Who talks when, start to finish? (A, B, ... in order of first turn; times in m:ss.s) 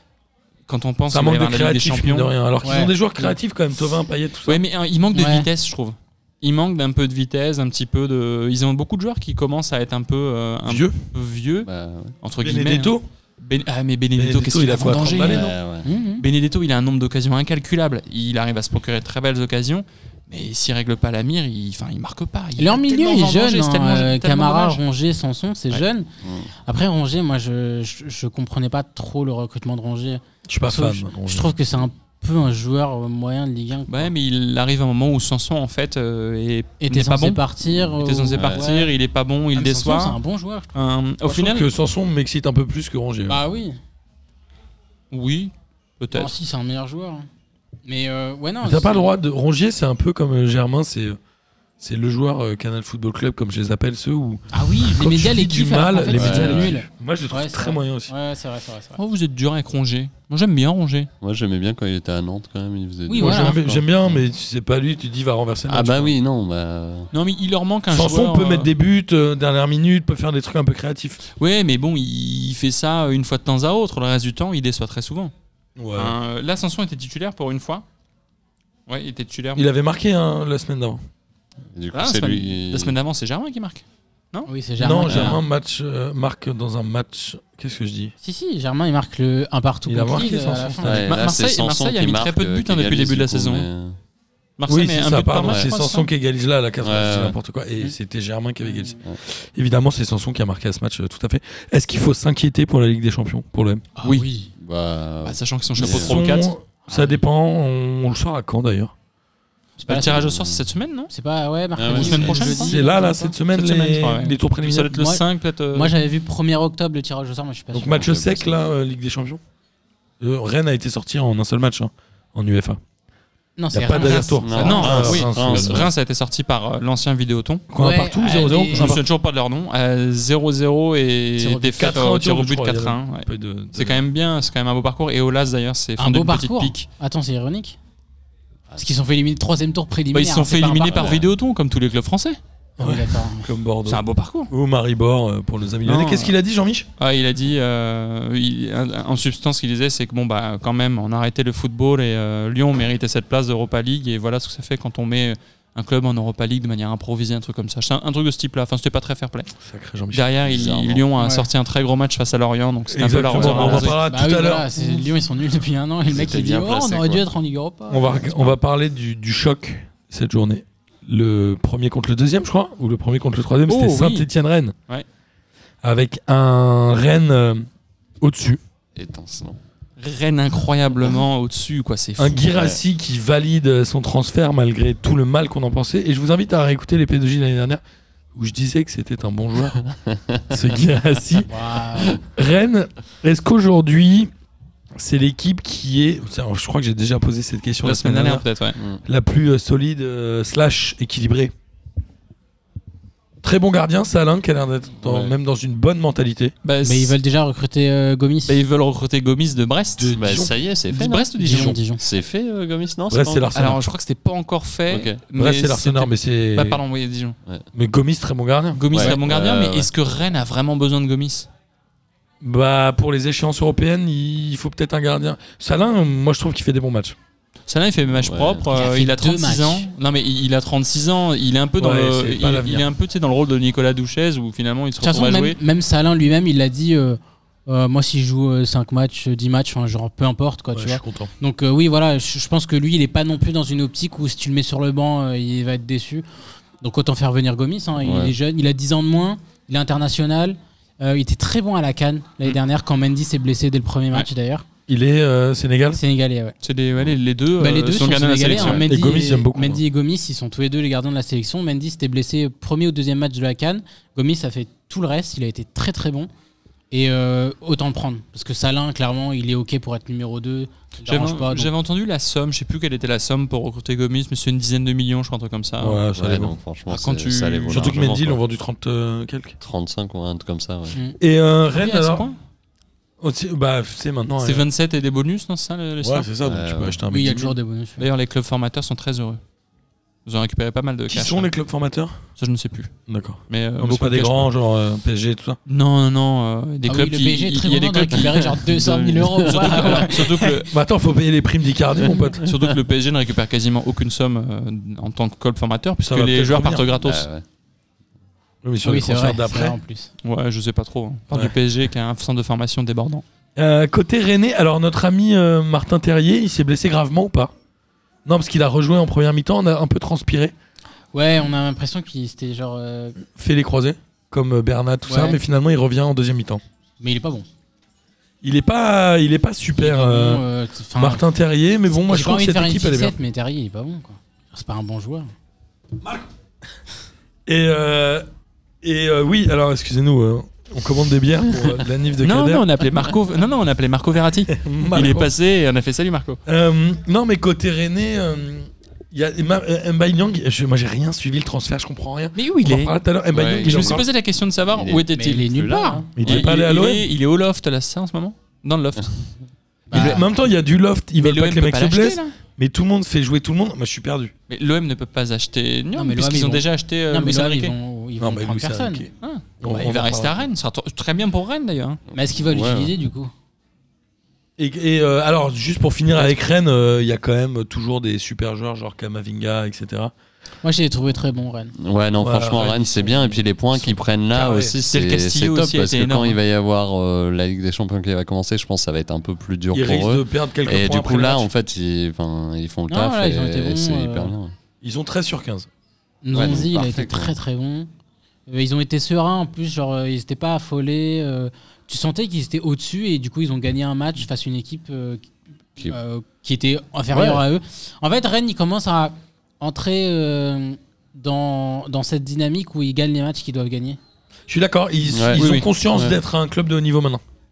0:00.7-0:02.3 A
0:01.1-0:04.6 B
0:02.6-0:02.9 C
0:04.4-0:11.7 A
0:05.1-0:05.5 C
0:10.6-0:10.9 B
0:11.6-0:12.1 D
0:12.2-0:15.5 A
0:12.4-0:13.0 B
0:14.2-0:15.5 B
0:14.8-0:16.2 C
0:15.1-0:15.9 D
0:16.2-0:24.8 A
0:22.6-0:26.1 C
0:26.2-0:26.5 D
0:26.6-0:34.1 C
0:30.5-0:31.6 B
0:33.9-0:37.4 A
0:36.8-0:38.9 C
0:37.9-0:40.2 A
0:38.3-0:38.7 D
0:39.5-0:40.8 C
0:40.7-0:41.7 A
0:41.2-0:43.4 B
0:43.3-0:43.8 C
0:45.1-0:46.3 A
0:46.1-0:47.3 C
0:47.8-0:49.1 C
0:48.6-0:51.2 B
0:51.8-0:58.1 B
0:54.5-0:59.0 C
0:56.1-0:56.7 D
0:59.0-1:01.1 A
1:01.2-1:04.2 D
1:03.1-1:03.6 C
1:03.2-1:06.1 B
1:05.7-1:07.1 D
1:07.1-1:08.7 A
1:07.9-1:11.2 B
1:11.4-1:15.3 A
1:15.8-1:16.2 B
1:15.9-1:17.8 A
1:18.9-1:19.7 A
1:19.6-1:21.0 B
1:21.7-1:22.9 D
1:21.9-1:24.5 A
1:24.5-1:25.4 C
1:24.8-1:28.1 B
1:25.1-1:25.4 A
1:28.2-1:31.0 C
1:29.8-1:31.2 B
1:30.8-1:34.0 D
1:31.1-1:33.6 A
1:34.6-1:36.1 A
1:34.7-1:43.9 B
1:36.8-1:37.4 D
1:38.6-1:39.0 C
1:44.0-1:44.5 C
1:44.0-1:44.3 A
1:44.6-1:46.2 D
1:45.2-1:46.5 A
1:45.8-1:48.9 B
1:49.8-1:50.3 C
1:49.9-1:51.1 A
1:50.0-1:50.6 D
1:51.1-1:53.3 C
1:51.8-1:52.4 D
1:51.9-1:52.8 A
1:52.2-1:54.9 B
1:53.5-1:55.9 A
1:54.9-1:58.2 C
1:57.7-1:59.4 B
1:57.9-1:58.6 D
2:00.2-2:02.8 B
2:03.6-2:05.1 C
2:03.7-2:05.9 B
2:04.0-2:07.6 A
2:04.4-2:05.9 D
2:07.7-2:09.0 B
2:07.8-2:09.0 C
2:08.6-2:16.9 A
2:11.4-2:12.0 C
2:11.8-2:14.0 B
2:16.0-2:17.8 C
2:18.8-2:21.2 C
2:20.1-2:22.4 A
2:20.9-2:21.2 D
2:22.8-2:26.9 B
2:22.8-2:23.5 C
2:23.8-2:24.5 A
2:25.8-2:26.3 A
2:27.0-2:39.5 A
2:39.6-2:40.3 B
2:40.1-2:44.0 A
2:40.4-2:41.0 D
2:41.2-2:41.5 C
2:42.9-2:44.7 B
2:43.4-2:43.8 D
2:43.4-2:48.3 C
2:46.1-2:47.2 D
2:47.9-2:54.7 B
2:53.7-2:54.2 A
2:55.8-2:57.7 B
2:58.2-2:58.6 B
2:58.9-2:59.6 D
3:00.0-3:02.5 A
3:02.2-3:07.8 B
3:02.5-3:02.8 D
3:08.3-3:09.8 B
3:09.9-3:10.4 D
3:10.5-3:11.5 B
3:11.4-3:12.2 C
3:12.2-3:14.3 B
3:14.9-3:18.4 B
3:17.8-3:18.8 A
3:18.8-3:19.0 D
3:19.0-3:21.5 B
3:23.4-3:26.5 B
3:25.0-3:25.4 D
3:26.6-3:27.2 A
3:26.8-3:28.6 C
3:28.5-3:30.2 A
3:30.0-3:30.5 B
3:30.1-3:33.7 D
3:30.9-3:31.8 A
3:31.4-3:32.0 C
3:33.1-3:33.8 B
3:33.5-3:37.4 A
3:34.9-3:35.2 D
3:35.3-3:36.8 B
3:37.7-3:39.0 B
3:38.7-3:41.5 A
3:38.9-3:39.9 D
3:42.4-3:47.2 B
3:47.7-3:55.6 A
3:48.2-3:48.6 D
3:48.7-3:49.9 C
3:51.8-3:52.9 B
3:55.0-4:06.2 C
4:00.7-4:01.3 B
4:06.8-4:14.6 C
4:08.0-4:08.4 D
4:14.9-4:16.0 B
4:15.9-4:16.5 C
4:16.6-4:18.9 A
4:17.6-4:26.3 C
4:18.8-4:19.8 B
4:26.9-4:31.7 C
4:31.0-4:36.0 A
4:35.8-4:36.5 B
4:36.1-4:38.4 D
4:36.9-4:38.0 A
4:37.7-4:39.6 B
4:39.6-4:41.0 D
4:41.2-4:42.3 B
4:41.7-4:42.4 A
4:43.2-4:44.6 B
4:44.4-4:46.3 A
4:46.0-4:47.6 B
4:46.4-4:47.0 D
4:47.1-4:48.0 C
4:48.0-4:49.4 A
4:50.2-4:51.5 A
4:51.1-4:52.2 B
4:52.4-4:52.9 A
4:53.1-4:55.6 B
4:53.5-4:54.5 A
4:55.7-4:58.6 A
4:56.8-5:00.6 C
4:58.2-5:00.1 D
4:59.4-5:00.7 A
5:00.7-5:02.5 B
5:02.2-5:02.5 D
5:02.4-5:07.2 A
5:06.0-5:06.9 B
5:07.0-5:07.4 D
5:08.6-5:09.8 B
5:08.8-5:10.1 C
5:10.2-5:13.2 A
5:13.6-5:17.5 B
5:18.2-5:20.5 B
5:21.1-5:23.2 C
5:23.3-5:26.6 B
5:25.0-5:25.4 C
5:27.0-5:27.4 C
5:28.4-5:33.2 B
5:29.8-5:31.2 C
5:31.9-5:35.3 C
5:37.4-5:38.2 B
5:38.8-5:42.7 B
5:42.2-5:46.4 A
5:44.5-5:45.3 B
5:46.4-5:54.1 B
5:52.4-5:53.0 A
5:53.3-5:54.1 D
5:53.6-5:55.5 A
5:54.7-5:56.4 D
5:55.1-5:56.1 C
5:56.2-5:57.1 B
5:56.2-5:59.2 A
5:59.9-6:00.3 C
5:59.9-6:04.3 B
5:59.9-6:00.3 A
6:01.2-6:02.3 A
6:04.5-6:07.7 A
6:05.9-6:09.0 C
6:08.2-6:10.4 B
6:09.2-6:12.0 A
6:12.1-6:13.3 C
6:12.4-6:12.9 D
6:14.6-6:20.1 B
6:20.6-6:21.7 C
6:21.8-6:34.5 D
6:22.2-6:24.7 B
6:24.4-6:26.4 A
6:29.7-6:31.5 B
6:32.9-6:34.3 C
6:34.8-6:35.7 B
6:36.2-6:37.9 C
6:36.3-6:37.3 D
6:38.5-6:45.3 C
6:45.8-6:54.0 C
6:47.1-6:47.4 B
6:54.5-6:57.2 B
6:55.1-6:56.1 D
6:55.4-6:55.7 A